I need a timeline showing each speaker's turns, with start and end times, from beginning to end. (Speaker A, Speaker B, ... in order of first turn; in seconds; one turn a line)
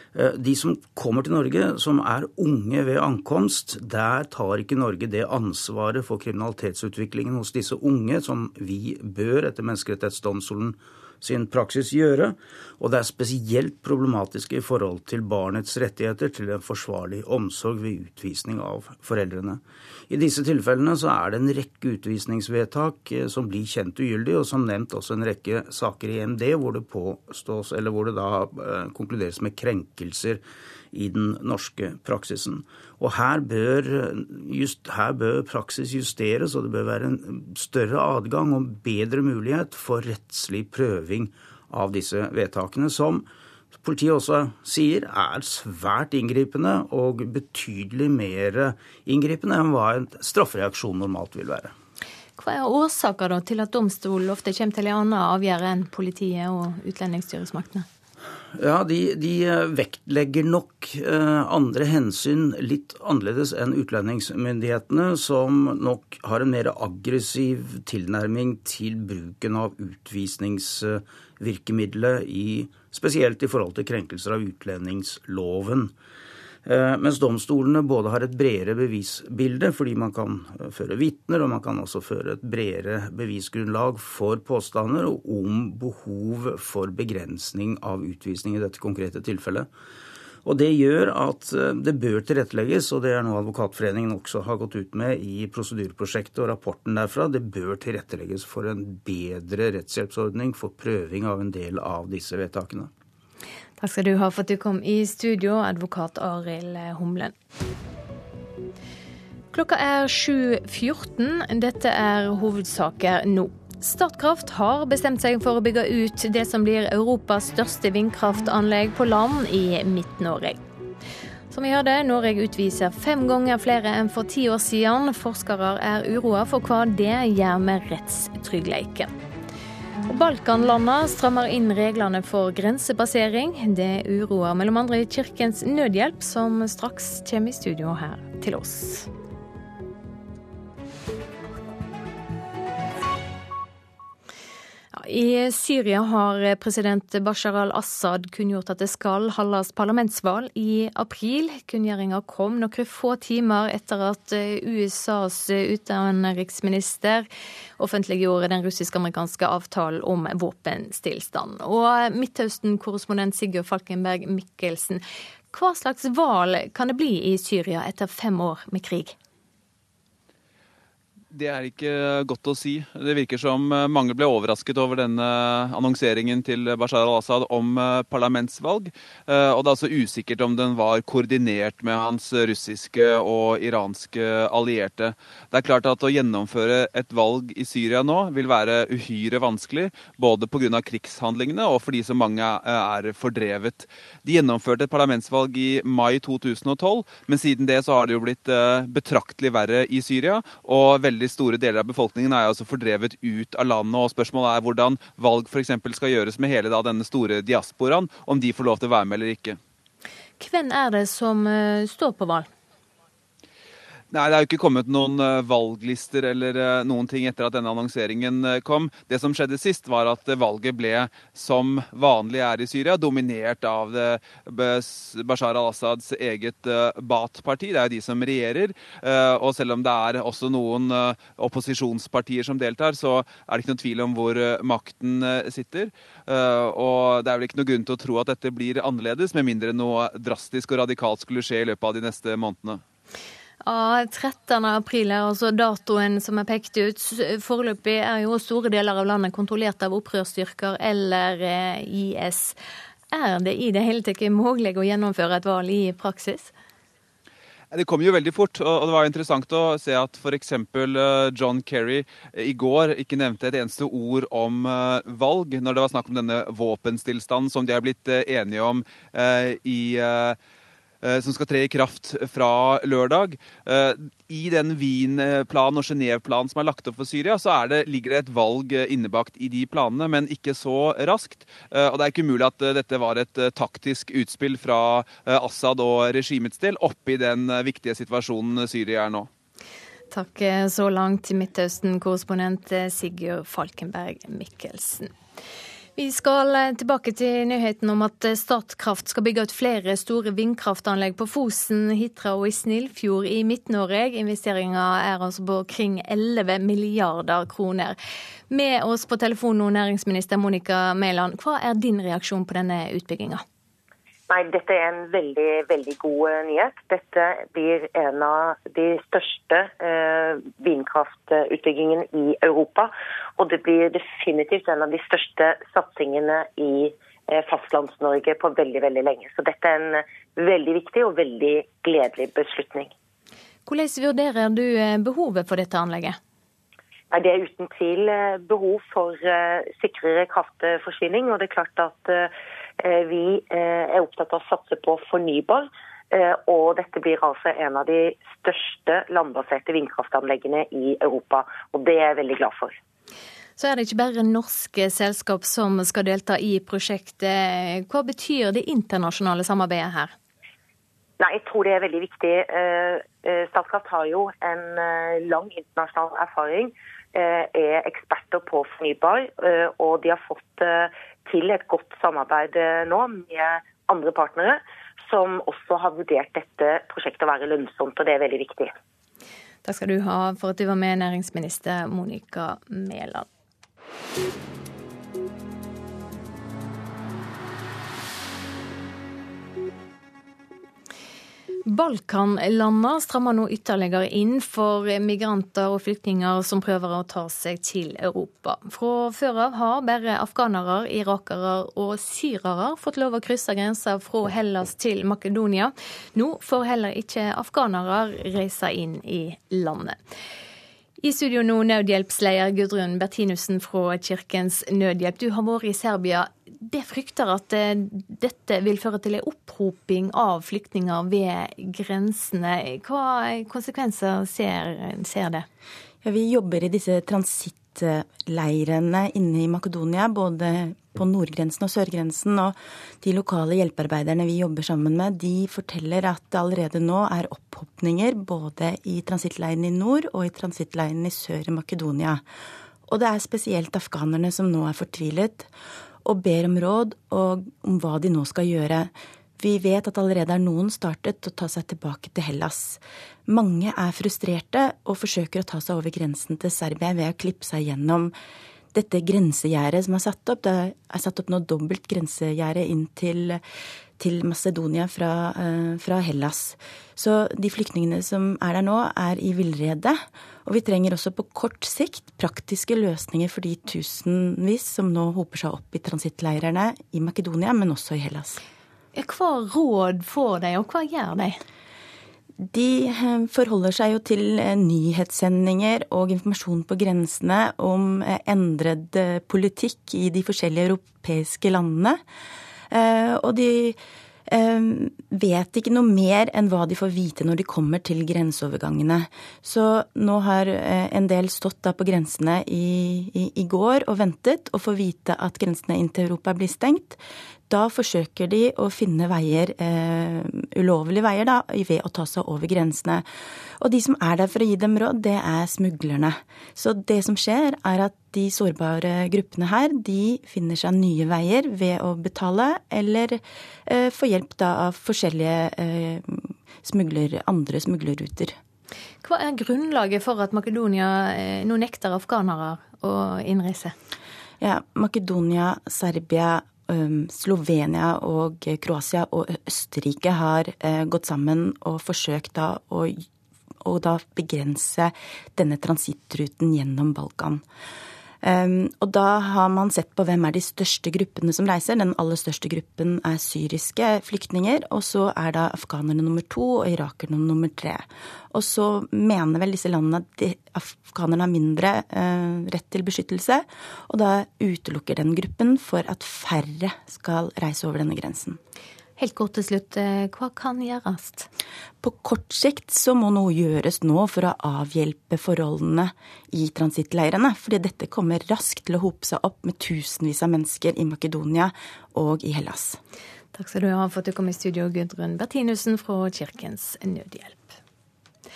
Speaker A: 0.1-51.7
Speaker B: 52.4-57.9
Speaker A: 58.5-75.9
Speaker A: 76.7-89.7
Speaker A: 90.4-102.9
Speaker B: 103.8-107.3
Speaker B: 109.5-120.6
Speaker B: 121.5-129.1
Speaker B: 130.1-139.1
Speaker B: 144.9-157.2
Speaker B: 157.8-169.2
Speaker C: 171.3-209.6
Speaker B: 210.4-212.5
Speaker C: 214.1-242.8
Speaker B: 243.6-252.5
Speaker B: 253.1-256.5
Speaker C: 257.7-270.4
Speaker C: 271.0-289.3
Speaker B: 290.1-295.1
Speaker B: 296.0-307.9
Speaker B: 308.5-313.4
Speaker D: 314.3-332.9
Speaker B: 333.7-336.2
Speaker D: 337.1-342.3
Speaker D: 342.8-352.7
Speaker B: 353.6-360.1
Speaker D: 361.2-378.7
Speaker B: 379.6-383.2
Speaker B: 391.6-410.0
Speaker B: 411.0-425.4
Speaker E: 426.0-442.2
Speaker E: 442.9-445.5
Speaker E: 446.0-458.1
Speaker E: 458.7-463.4
Speaker E: 464.0-478.4
Speaker B: 478.9-481.4
Speaker E: 482.4-492.0
Speaker E: 492.7-513.1
Speaker E: 513.6-528.4
Speaker B: 529.0-533.7
Speaker E: 534.4-543.0
Speaker E: 543.6-547.4
Speaker E: 548.2-568.4
Speaker B: 569.0-571.3
Speaker E: 571.8-582.8
Speaker B: 583.3-587.6